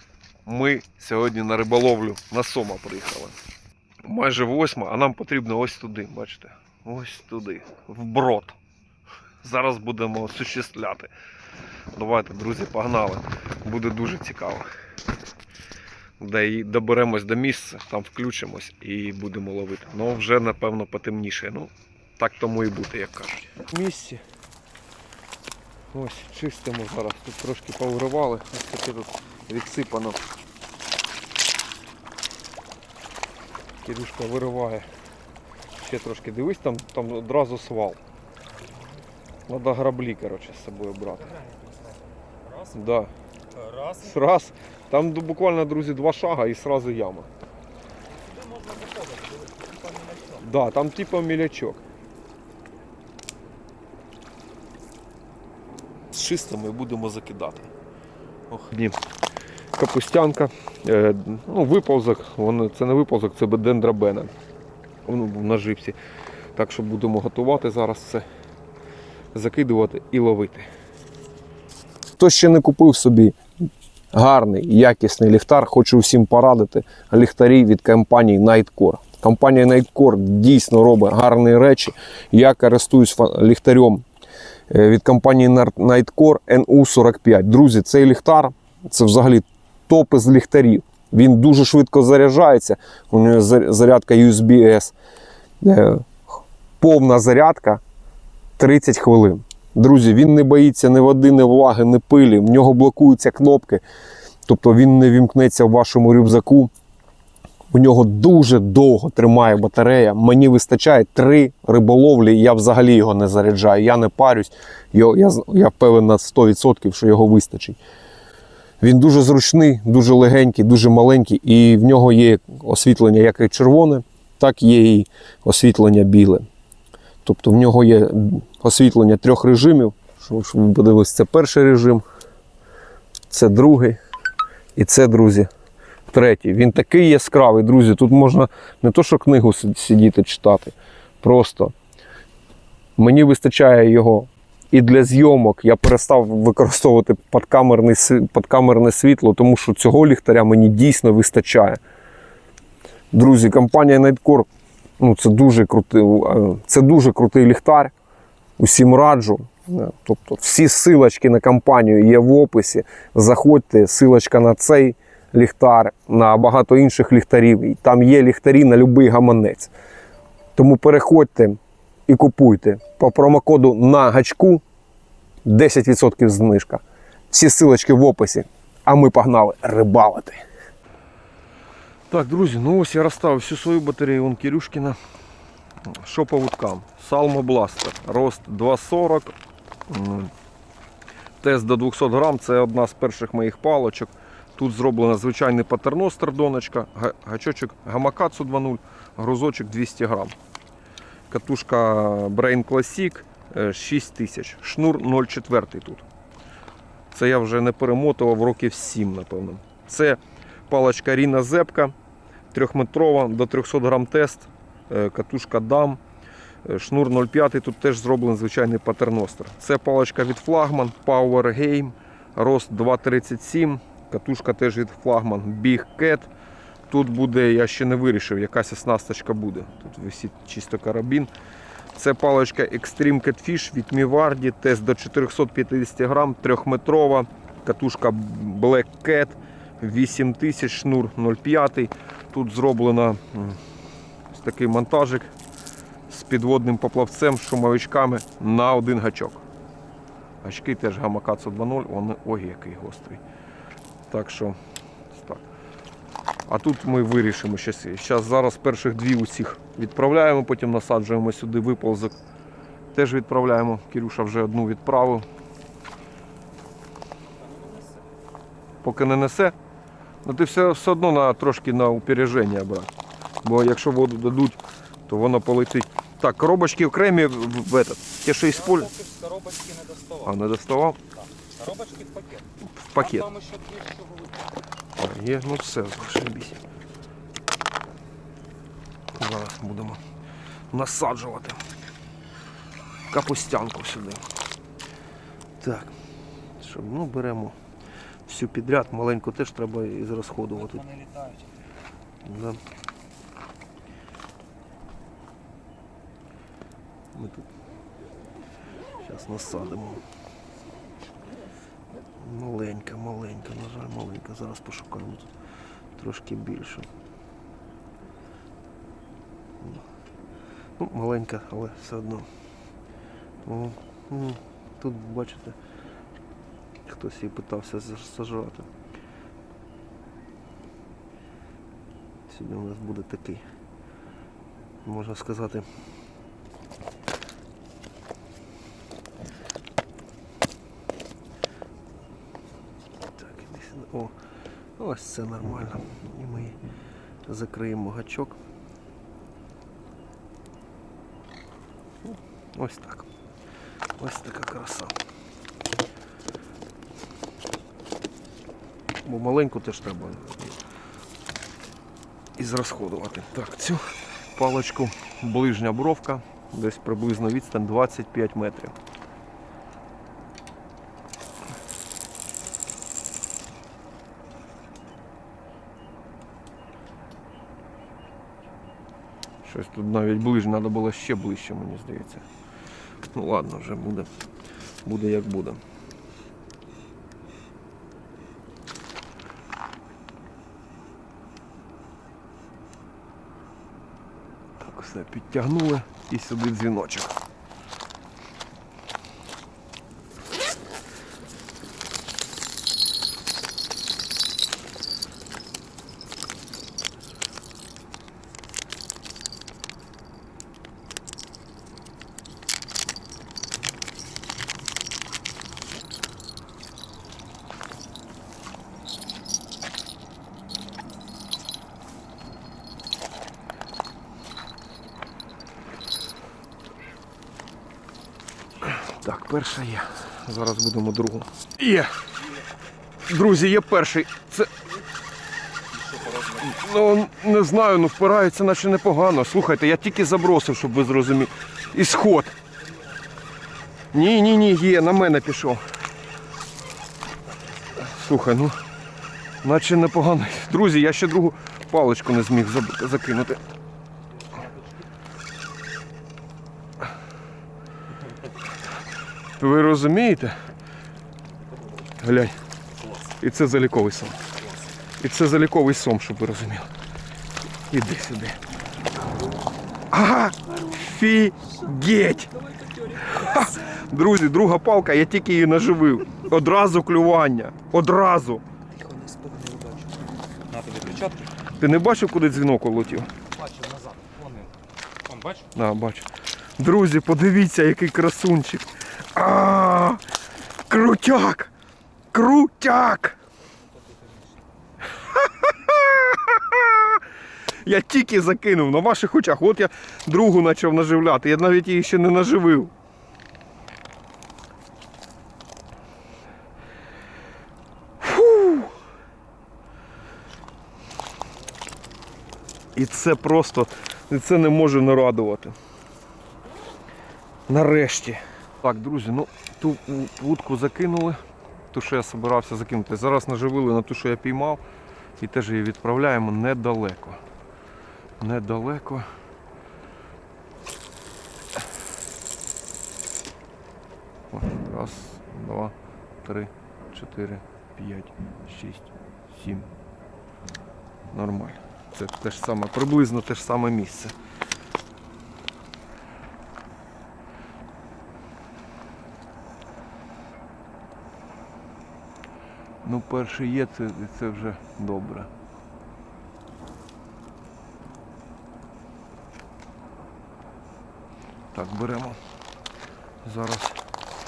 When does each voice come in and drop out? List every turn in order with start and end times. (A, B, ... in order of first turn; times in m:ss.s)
0:00.4-0:03.4 A
0:04.0-0:08.6 A
0:09.4-0:11.1 A
0:11.9-0:14.7 A
0:16.2-0:24.2 A
0:25.9-0:30.2 A
0:33.8-0:34.9 A
0:35.7-0:38.0 A
0:39.5-0:41.4 A
0:41.3-0:42.7 B
0:42.7-0:43.1 A
0:43.5-0:44.1 B
0:43.9-0:47.3 A
0:48.1-0:50.4 B
0:50.3-0:51.8 A
0:56.1-0:57.7 A
0:58.5-0:59.0 A
0:59.7-1:04.3 A
1:05.0-1:06.0 A
1:06.5-1:08.2 A
1:09.3-1:10.7 A
1:12.2-1:13.4 A
1:14.1-1:24.0 A
1:24.7-1:34.9 A
1:35.6-1:36.2 A
1:36.8-1:37.8 A
1:38.6-1:43.8 A
1:44.5-1:46.7 A
1:47.7-1:57.8 A
1:58.8-2:06.4 A
2:07.2-2:12.0 A
2:13.3-2:14.0 A
2:14.8-2:15.5 A
2:16.1-2:21.7 A
2:23.0-2:31.8 A
2:33.1-2:34.5 A
2:35.0-2:37.9 A
2:38.6-2:49.7 A
2:50.6-2:54.6 A
2:55.4-3:00.4 A
3:02.1-3:05.0 A
3:05.8-3:09.3 A
3:09.9-3:10.3 A
3:11.4-3:20.3 A
3:21.3-3:26.0 A
3:27.1-3:31.9 A
3:32.5-3:36.0 A
3:36.6-3:46.3 A
3:46.9-3:51.3 A
3:51.9-4:03.6 A
4:04.3-4:05.3 A
4:06.1-4:09.4 A
4:10.4-4:13.2 A
4:14.1-4:14.6 A
4:15.1-4:15.4 A
4:16.5-4:22.2 A
4:22.9-4:25.3 A
4:27.4-4:27.9 B
4:28.8-4:29.6 A
4:30.2-4:38.9 A
4:38.5-4:40.3 B
4:40.2-4:41.0 A
4:41.2-4:42.5 B
4:42.6-4:43.3 A
4:43.0-4:44.4 B
4:45.0-4:46.6 A
4:49.1-4:50.0 A
4:50.7-4:51.6 A
4:53.1-4:54.2 A
4:55.6-4:55.9 A
4:56.6-4:57.6 A
4:58.2-5:01.0 A
5:00.8-5:01.4 B
5:02.2-5:02.6 A
5:07.1-5:07.5 A
5:09.0-5:10.0 A
5:12.1-5:15.3 A
5:15.9-5:16.9 A
5:20.8-5:22.3 A
5:23.4-5:25.6 A
5:26.8-5:28.7 A
5:32.3-5:33.4 A
5:34.8-5:35.7 A
5:43.1-5:44.2 A
5:44.8-5:46.6 A
5:47.3-5:48.4 A
5:52.0-5:53.1 A
5:54.0-5:54.9 A
5:59.0-6:00.6 A
6:02.4-6:08.7 A
6:19.4-6:22.2 A
6:23.1-6:24.1 A
6:24.8-6:25.6 A
6:34.6-6:37.2 A
7:08.6-7:12.0 A
7:13.0-7:14.5 A
7:15.8-7:16.4 B
7:16.2-7:22.3 A
7:23.9-7:25.6 A
7:27.7-7:28.6 A
7:29.4-7:33.5 A
7:39.4-7:40.3 A
7:42.0-7:42.4 A
7:43.0-7:44.3 A
7:45.0-7:46.7 A
7:47.7-7:48.4 A
7:49.9-7:58.4 A
7:58.8-8:01.3 B
8:01.6-8:03.1 A
8:03.3-8:05.5 B
8:05.5-8:10.0 A
8:10.6-8:11.5 A
8:12.1-8:13.2 A
8:13.8-8:14.3 B
8:14.9-8:17.0 A
8:17.6-8:22.7 A
8:28.0-8:28.8 A
8:32.7-8:35.5 A
8:37.5-8:41.2 A
8:41.7-8:44.6 A
8:45.2-8:47.2 A
8:48.2-8:49.1 A
8:54.3-8:59.7 A
9:01.1-9:04.2 A
9:12.8-9:15.3 A
9:21.5-9:22.2 A
9:23.2-9:23.8 A